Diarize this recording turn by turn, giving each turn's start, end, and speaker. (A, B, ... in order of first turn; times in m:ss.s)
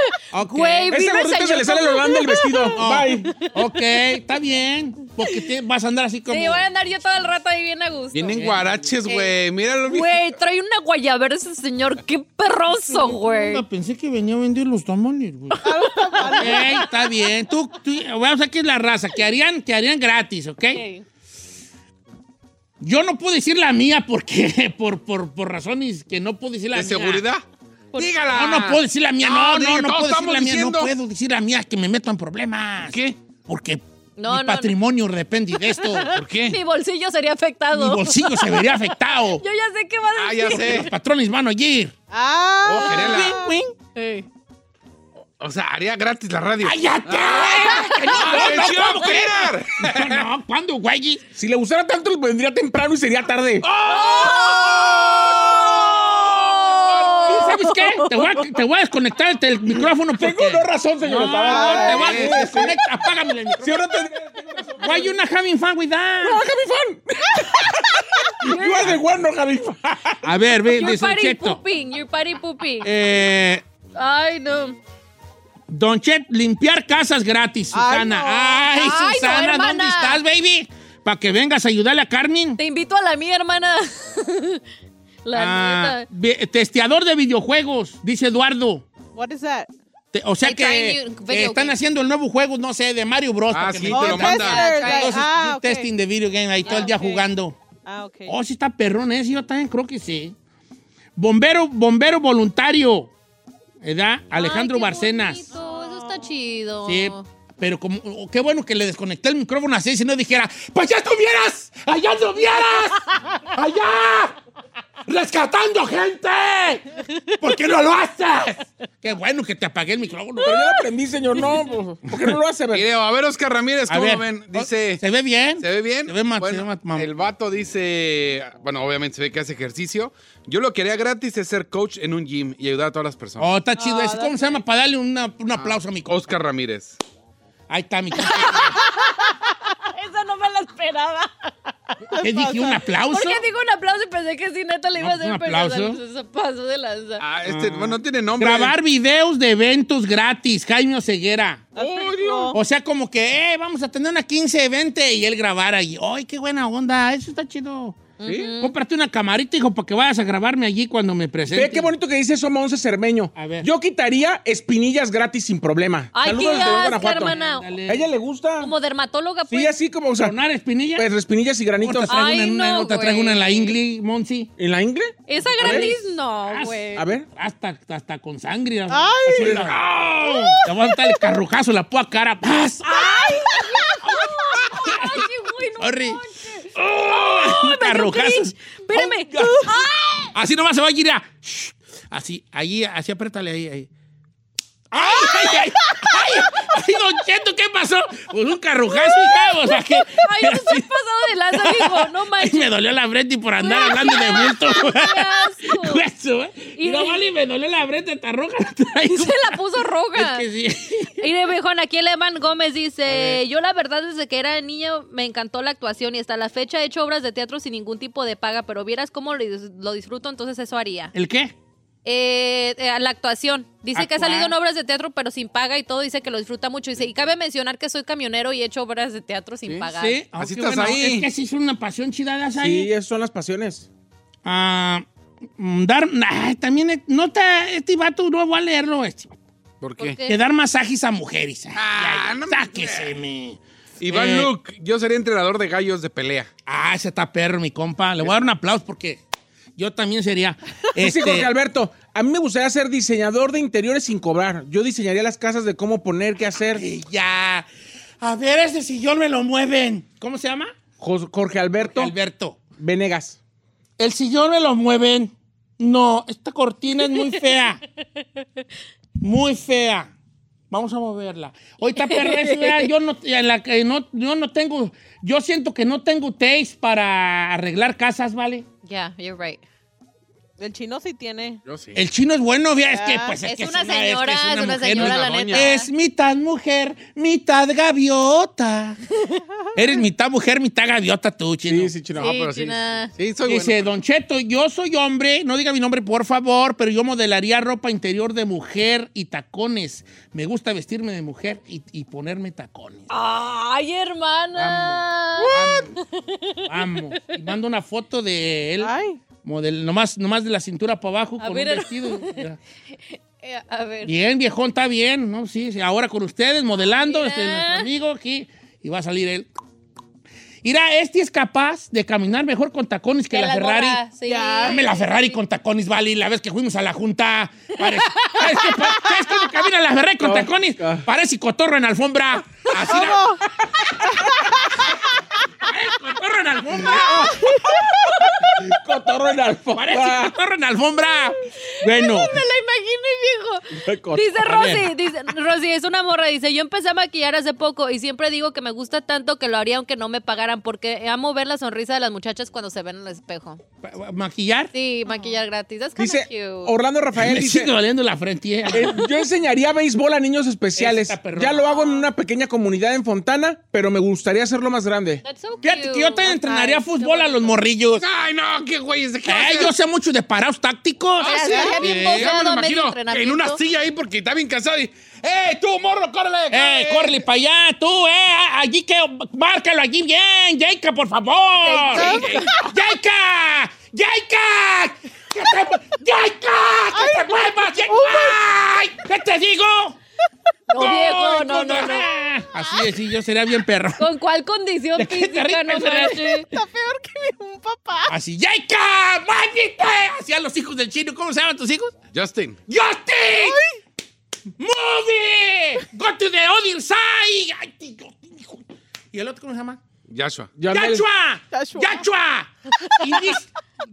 0:00.3-0:00.9 A
0:00.5-0:02.8 B
0:00.9-0:03.4 C
0:02.8-0:06.6 A
0:06.3-0:08.4 B
0:08.1-0:10.2 D
0:08.3-0:08.9 A
0:09.1-0:13.6 B
0:12.7-0:15.7 A
0:15.6-0:16.8 E
0:16.1-0:16.8 B
0:16.3-0:20.8 A
0:20.7-0:21.0 B
0:22.8-0:27.2 A
0:26.7-0:27.4 D
0:28.0-0:30.9 D
0:28.3-0:36.1 A
0:32.9-0:33.2 D
0:34.2-0:34.7 B
0:35.7-0:40.9 B
0:36.1-0:36.6 D
0:37.7-0:39.4 A
0:40.2-0:40.9 D
0:40.4-0:41.9 A
0:42.1-0:43.5 E
0:42.6-0:43.4 D
0:42.9-0:43.7 A
0:44.0-0:44.3 B
0:45.4-0:50.2 D
0:46.6-0:51.2 A
0:47.6-0:48.5 B
0:51.4-0:53.7 C
0:53.6-0:55.3 D
0:53.9-0:58.2 B
0:56.3-0:57.3 D
0:57.3-1:04.0 A
0:59.7-1:02.8 C
1:01.5-1:02.0 E
1:02.0-1:02.4 D
1:03.6-1:05.1 C
1:04.8-1:06.4 A
1:06.2-1:10.2 C
1:08.4-1:08.9 B
1:10.2-1:11.6 A
1:10.7-1:12.9 B
1:12.8-1:13.6 A
1:14.0-1:14.8 B
1:15.7-1:22.6 A
1:17.7-1:18.7 E
1:18.7-1:20.2 B
1:22.6-1:24.6 B
1:25.2-1:26.1 B
1:25.3-1:28.8 A
1:29.2-1:29.7 E
1:30.1-1:37.6 A
1:30.4-1:31.8 B
1:33.5-1:34.6 D
1:33.9-1:35.9 E
1:34.3-1:35.1 B
1:36.6-1:37.3 E
1:36.6-1:36.9 B
1:37.8-1:38.4 E
1:38.3-1:40.4 A
1:41.2-1:43.1 A
1:43.8-1:45.5 A
1:44.3-1:47.2 B
1:45.6-1:46.1 E
1:46.9-1:54.4 A
1:55.1-2:00.8 A
2:00.4-2:02.9 C
2:02.7-2:05.0 D
2:03.9-2:07.1 A
2:05.6-2:13.5 D
2:13.4-2:16.2 A
2:13.8-2:14.6 E
2:15.6-2:17.0 D
2:17.7-2:18.8 A
2:18.2-2:19.1 B
2:19.9-2:21.5 B
2:22.1-2:22.8 E
2:22.2-2:23.4 A
2:23.1-2:27.2 B
2:25.0-2:26.0 A
2:27.2-2:28.8 D
2:27.5-2:31.7 A
2:31.8-2:32.6 E
2:31.8-2:32.3 C
2:32.5-2:41.9 A
2:38.2-2:38.7 B
2:38.2-2:38.5 C
2:41.5-2:47.4 C
2:43.4-2:43.7 A
2:46.1-2:47.7 B
2:46.6-2:48.1 A
2:47.9-2:48.7 C
2:48.6-2:49.8 B
2:49.5-2:50.4 C
2:50.2-2:51.1 A
2:51.0-2:52.2 C
2:51.8-2:54.5 A
2:52.1-2:53.8 B
2:54.6-2:55.9 C
2:55.3-2:57.0 B
2:55.6-3:03.4 A
2:57.0-2:57.3 C
2:58.9-2:59.7 E
2:59.3-3:00.4 C
3:00.2-3:00.6 B
3:02.8-3:10.3 B
3:04.7-3:05.2 A
3:05.8-3:06.2 A
3:06.8-3:09.8 A
3:10.3-3:13.9 A
3:14.9-3:20.9 A
3:18.9-3:22.7 B
3:21.5-3:29.6 A
3:23.6-3:26.0 B
3:26.8-3:27.2 B
3:29.1-3:30.4 B
3:30.1-3:31.2 A
3:31.2-3:41.1 B
3:33.0-3:33.4 A
3:41.1-3:41.5 A
3:42.0-3:50.2 B
3:44.0-3:44.5 A
3:50.0-3:52.9 A
3:50.4-3:51.3 D
3:52.6-3:53.9 C
3:54.4-3:55.0 A
3:55.6-3:59.3 A
3:59.8-4:00.2 D
4:00.0-4:00.4 B
4:00.3-4:04.5 A
4:01.8-4:03.2 D
4:04.0-4:06.5 D
4:06.7-4:09.2 A
4:09.8-4:11.5 A
4:11.0-4:16.8 C
4:16.7-4:17.7 A
4:18.2-4:20.8 A
4:21.0-4:22.1 C
4:21.8-4:22.6 A
4:22.8-4:23.4 C
4:24.0-4:27.8 A
4:29.2-4:30.1 A
4:30.7-4:38.7 A
4:32.1-4:32.9 B
4:38.8-4:39.6 B
4:40.6-4:41.6 E
4:41.7-4:42.0 D
4:42.0-4:49.0 A
4:42.9-4:43.4 E
4:43.4-4:45.9 B
4:44.9-4:45.7 D
4:49.8-4:51.9 A
4:51.7-4:52.2 C
4:52.1-4:53.9 D
4:52.2-4:53.1 B
4:53.5-5:03.1 A
5:03.1-5:06.6 B
5:04.6-5:06.0 A
5:06.7-5:08.9 A
5:08.8-5:09.2 E
5:09.4-5:12.6 A
5:11.4-5:12.4 B
5:13.1-5:14.1 B
5:14.0-5:19.5 A
5:16.8-5:17.9 B
5:20.6-5:24.0 A
5:23.3-5:25.3 B
5:24.3-5:24.8 E
5:24.7-5:33.3 A
5:30.2-5:31.0 C
5:32.9-5:33.4 E
5:34.2-5:34.6 E
5:35.7-5:37.5 A
5:38.6-5:40.3 C
5:39.7-5:42.4 A
5:41.8-5:53.6 B
5:43.8-5:44.4 C
5:44.4-5:44.9 A
5:53.8-5:54.7 A
5:54.7-5:56.7 B
5:56.0-5:57.7 C
5:57.2-5:59.0 A
5:58.7-6:05.2 C
6:00.8-6:01.6 A
6:01.6-6:02.1 B
6:05.2-6:07.6 B
6:05.6-6:08.0 A
6:08.0-6:09.7 D
6:09.3-6:12.3 A
6:11.2-6:13.6 B
6:11.2-6:17.2 D
6:16.5-6:30.0 A
6:21.6-6:22.4 B
6:22.0-6:22.5 E
6:22.1-6:22.5 D
6:26.9-6:28.4 E
6:30.7-6:32.1 B
6:30.7-6:34.0 A
6:34.0-6:36.5 B
6:35.0-6:36.3 A
6:36.4-6:38.1 E
6:38.1-6:41.9 A
6:42.1-6:42.6 D
6:42.7-6:43.6 A
6:43.3-6:43.8 E
6:44.6-6:49.8 A
6:50.1-6:50.6 D
6:50.6-6:51.0 C
6:50.7-6:53.5 A
6:51.5-6:52.0 E
6:52.8-6:53.1 E